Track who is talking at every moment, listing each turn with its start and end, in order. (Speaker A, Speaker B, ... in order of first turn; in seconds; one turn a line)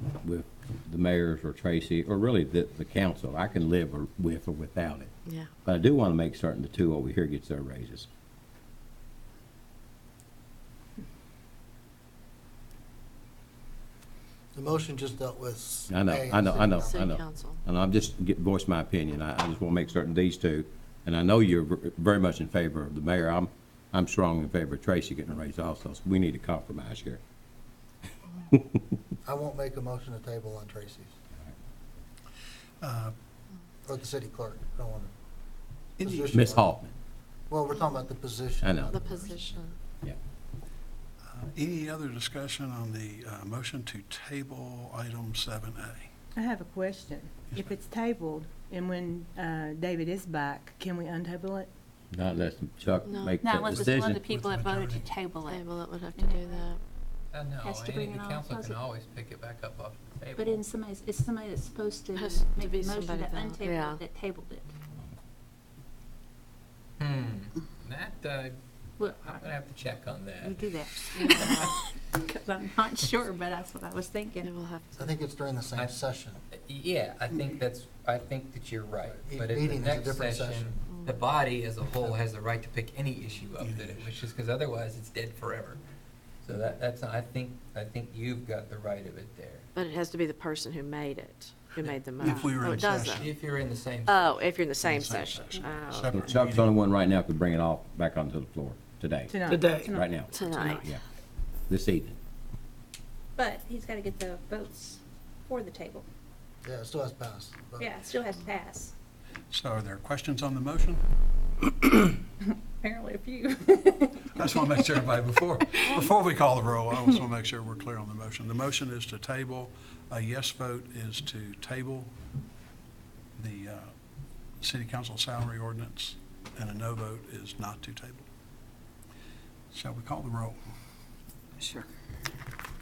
Speaker A: 0.2-8.1
Speaker B: 5.2-5.5
Speaker C: 14.5-17.1
Speaker A: 15.9-27.2
Speaker B: 16.8-17.6
Speaker C: 29.2-31.1
Speaker D: 32.8-33.1
Speaker C: 33.8-35.1
Speaker D: 36.0-36.3
Speaker C: 36.0-36.8
Speaker A: 36.3-36.9
Speaker C: 37.5-39.6
Speaker A: 38.6-39.0
Speaker B: 38.9-39.8
Speaker D: 41.3-46.1
Speaker E: 46.3-51.7
Speaker D: 47.5-47.8
Speaker A: 52.1-54.2
Speaker B: 53.0-53.4
Speaker F: 53.4-56.7
Speaker D: 53.6-55.2
Speaker B: 55.4-56.8
Speaker G: 57.3-60.6
Speaker F: 57.6-58.8
Speaker F: 60.3-64.7
Speaker B: 62.1-64.0
Speaker G: 67.0-68.6
Speaker F: 69.0-69.5
Speaker G: 69.2-70.6
Speaker F: 70.4-74.5
Speaker B: 71.2-71.7
Speaker B: 74.4-75.1
Speaker C: 75.0-76.4
Speaker G: 76.5-85.8
Speaker C: 79.0-80.8
Speaker B: 80.9-81.3
Speaker D: 83.6-84.2
Speaker G: 86.4-89.7
Speaker B: 89.7-93.2
Speaker D: 91.8-93.3
Speaker G: 93.0-94.4
Speaker B: 94.1-96.3
Speaker D: 94.7-96.7
Speaker A: 96.1-101.0
Speaker E: 99.3-99.8
Speaker F: 99.8-100.1
Speaker B: 100.3-100.8
Speaker A: 101.7-102.2
Speaker F: 103.3-106.1
Speaker C: 106.6-107.9
Speaker F: 107.8-108.9
Speaker D: 109.5-111.0
Speaker F: 112.4-115.0
Speaker D: 114.3-122.1
Speaker D: 123.3-123.9
Speaker D: 124.6-128.3
Speaker D: 129.7-130.7